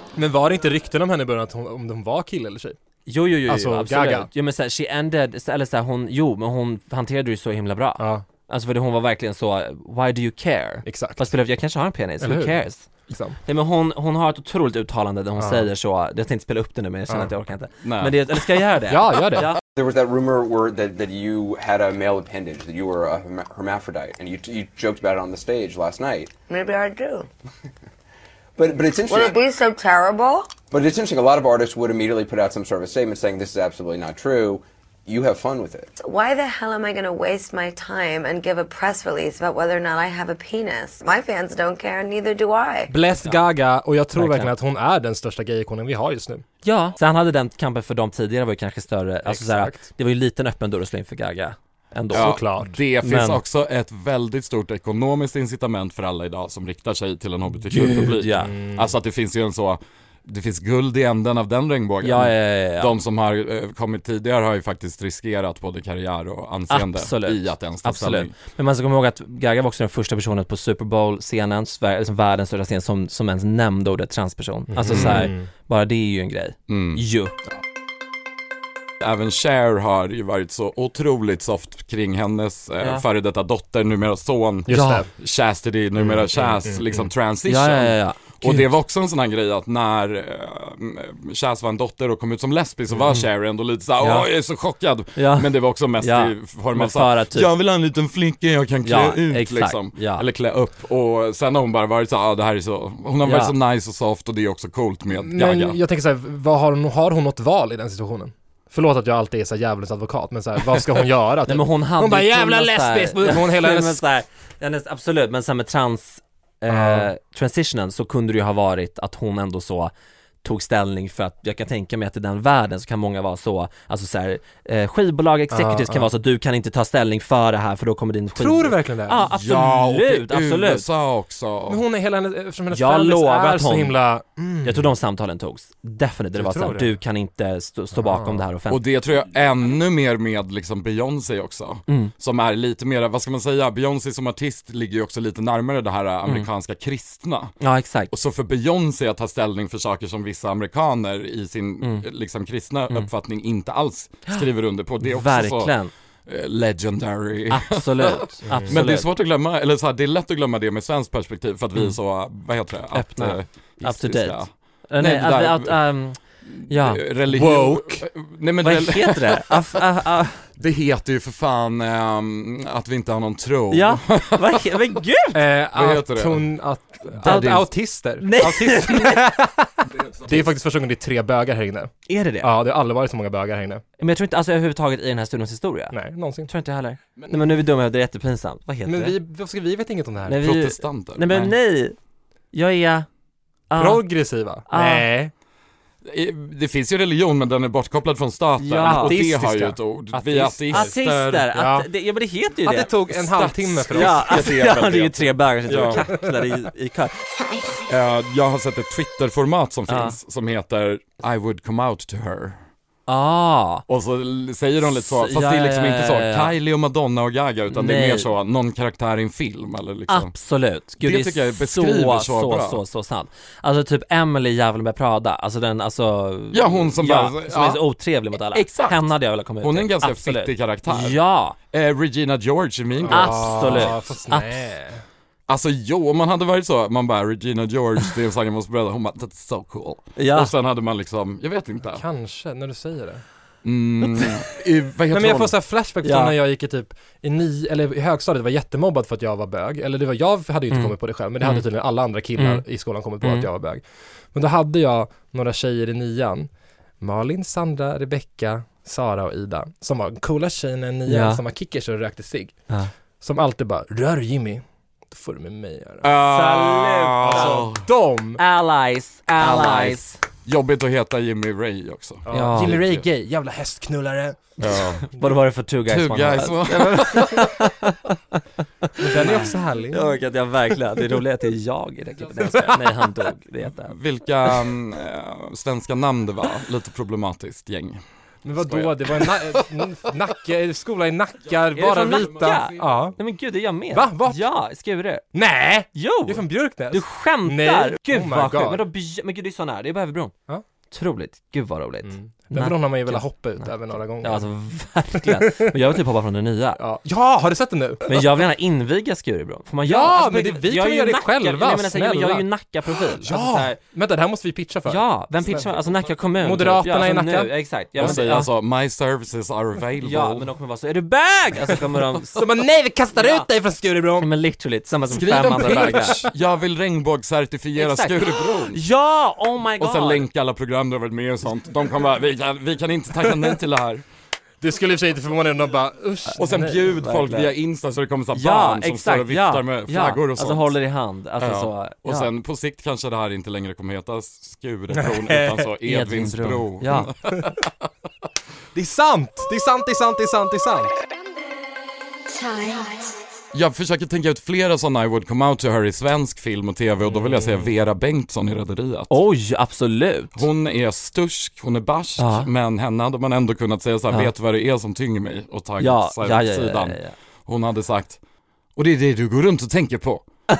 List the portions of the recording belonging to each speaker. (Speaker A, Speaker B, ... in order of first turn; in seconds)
Speaker A: 0.1-2.8, 3.5-4.3, 8.0-8.2, 10.8-11.3, 12.2-12.6, 13.1-13.4, 15.4-15.7, 18.9-19.5, 42.9-46.4, 49.2-49.8, 52.1-52.8, 58.4-58.9, 74.7-75.5, 84.7-85.1, 86.0-87.1, 105.1-114.0, 116.7-117.1, 125.5-126.1, 128.3-129.3, 131.7-134.9, 136.3-137.0, 137.9-138.4, 158.4-158.8, 167.3-168.0, 175.3-183.8, 185.9-186.5, 188.8-190.4, 193.8-195.3, 198.8-200.9, 201.5-201.9, 202.6-204.5, 233.0-235.0, 241.8-243.2, 245.1-256.5, 257.0-262.6, 263.2-268.4, 269.5-269.9, 272.3-274.5, 279.0-280.1, 282.4-283.1, 288.4-293.2, 293.9-294.4, 295.3-298.9, 302.0-304.4, 305.2-305.6, 306.8-308.2, 309.8-315.7, 316.4-318.2, 322.4-324.3, 325.5-326.3, 334.6-337.0, 344.9-345.7, 348.7-351.0
Speaker B: 3.0-12.8, 13.4-19.6, 44.1-44.5, 46.6-53.4, 57.7-58.5, 62.0-62.9, 66.7-77.3, 84.7-85.0, 87.5-88.2, 94.0-94.3, 95.2-97.5, 98.8-100.2, 103.2-103.5, 111.5-119.9, 120.4-130.8, 132.7-134.0, 134.6-138.8, 141.9-142.1, 147.6-148.1, 155.0-155.9, 157.5-159.1, 162.9-167.0, 168.6-170.4, 173.7-175.4, 177.2-177.6, 178.2-179.4, 182.1-182.5, 184.0-189.2, 190.3-191.9, 192.5-193.1, 193.7-194.1, 194.7-195.1, 198.6-199.2, 200.7-202.9, 203.9-207.1, 209.9-210.1, 213.1-213.8, 214.8-216.5, 217.7-218.3, 220.1-231.6, 233.1-234.6, 240.2-240.5, 246.0-246.3, 250.7-251.6, 252.3-252.6, 253.2-253.5, 261.1-261.4, 266.2-267.6, 268.4-270.2, 272.3-272.8, 274.6-278.1, 278.9-283.9, 291.7-295.2, 295.9-300.3, 300.9-306.8, 308.1-313.8, 314.9-318.5, 320.0-322.4, 323.2-323.5, 324.2-326.3, 327.7-330.2, 336.6-337.5, 338.3-342.3, 345.8-347.1, 357.1-357.7, 359.1-360.4, 362.2-362.5, 365.8-367.1
Speaker C: 17.8-18.1, 52.1-68.3, 74.9-75.3, 76.7-77.0, 79.0-105.8, 129.2-131.8, 138.7-147.5, 148.1-155.7, 156.3-165.8, 166.4-169.5, 170.6-174.4, 175.7-176.5, 177.2-177.6, 180.0-180.3, 190.4-191.5, 196.1-201.5, 203.1-206.1, 207.8-212.6, 213.9-220.3, 221.0-222.8, 226.5-227.8, 228.4-229.1, 229.6-231.2, 231.7-233.9, 235.5-242.0, 243.6-245.5, 266.0-267.9, 269.4-273.0, 274.6-275.1, 275.9-277.6, 283.9-288.0, 288.6-289.6, 291.9-292.6, 315.5-316.1, 318.0-320.5, 325.1-328.8, 329.8-334.0, 336.4-340.8, 341.4-347.7, 353.5-359.1, 360.4-368.2, 368.8-370.2
Speaker D: 19.7-26.3, 28.6-29.4, 30.7-35.9
Speaker E: 26.5-27.2, 29.1-30.5, 36.0-42.9, 352.3-353.0